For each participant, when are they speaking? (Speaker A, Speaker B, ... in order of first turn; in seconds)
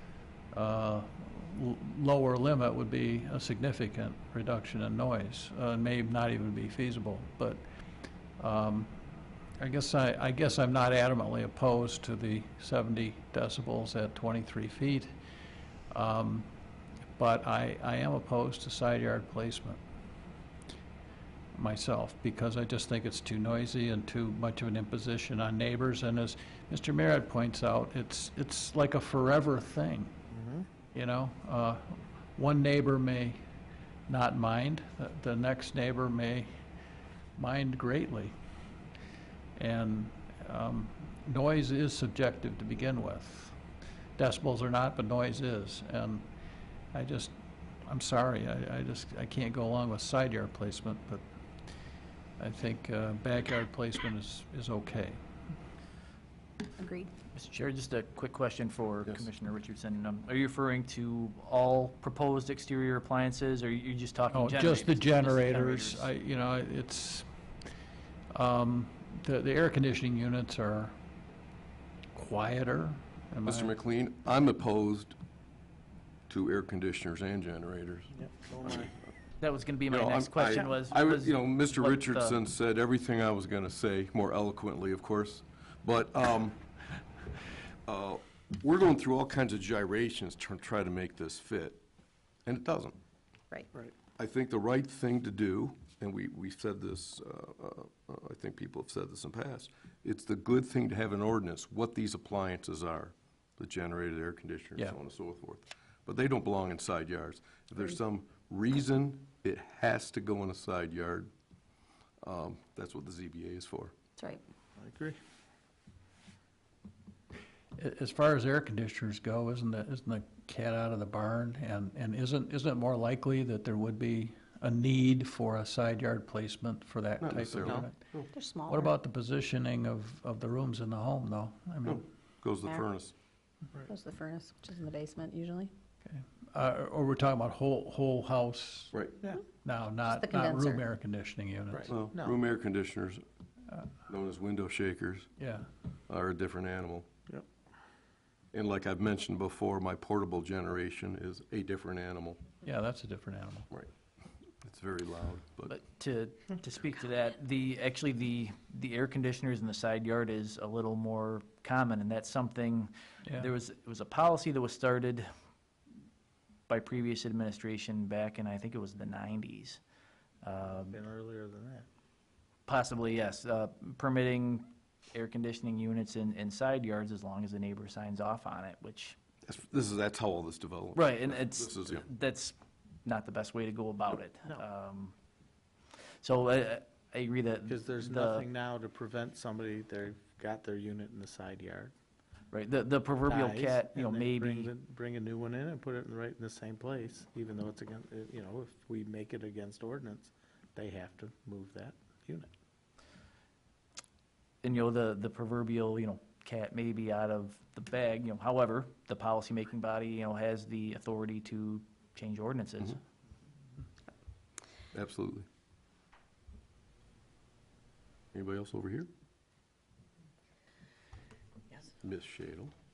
Speaker A: 0.5-7.6, 8.4-9.0, 9.6-15.1, 15.9-16.5, 17.2-19.8, 21.5-30.1, 30.9-33.4, 34.1-36.5, 37.4-38.3, 39.5-43.6, 44.2-46.3, 46.9-51.2, 52.4-55.2, 64.3-67.3, 68.3-71.0, 72.1-73.7, 117.8-132.0, 136.1-138.9, 139.6-141.9, 145.4-145.7, 152.6-153.7
Speaker B: 30.3-30.7, 78.1-78.9, 114.8-115.2, 141.7-142.3, 170.6-171.9, 187.7-191.9, 193.2-202.5
Speaker C: 56.8-57.1, 128.3-128.9, 133.9-135.7, 140.1-140.8
Speaker D: 57.3-66.1, 79.4-82.4, 155.7-165.3, 166.7-169.8, 170.4-171.0, 172.7-179.1, 180.9-185.1, 186.2-188.4, 192.5-194.7, 204.6-213.0
Speaker E: 73.5-75.2, 76.3-78.1, 79.9-86.6, 87.8-91.8, 92.5-93.0, 94.1-111.3, 112.2-113.9, 127.2-128.3, 131.8-133.1, 141.9-143.2, 144.1-145.3, 146.1-147.1, 148.5-152.4, 154.6-155.7, 179.4-182.1, 214.9-215.4, 218.3-219.1, 222.0-222.7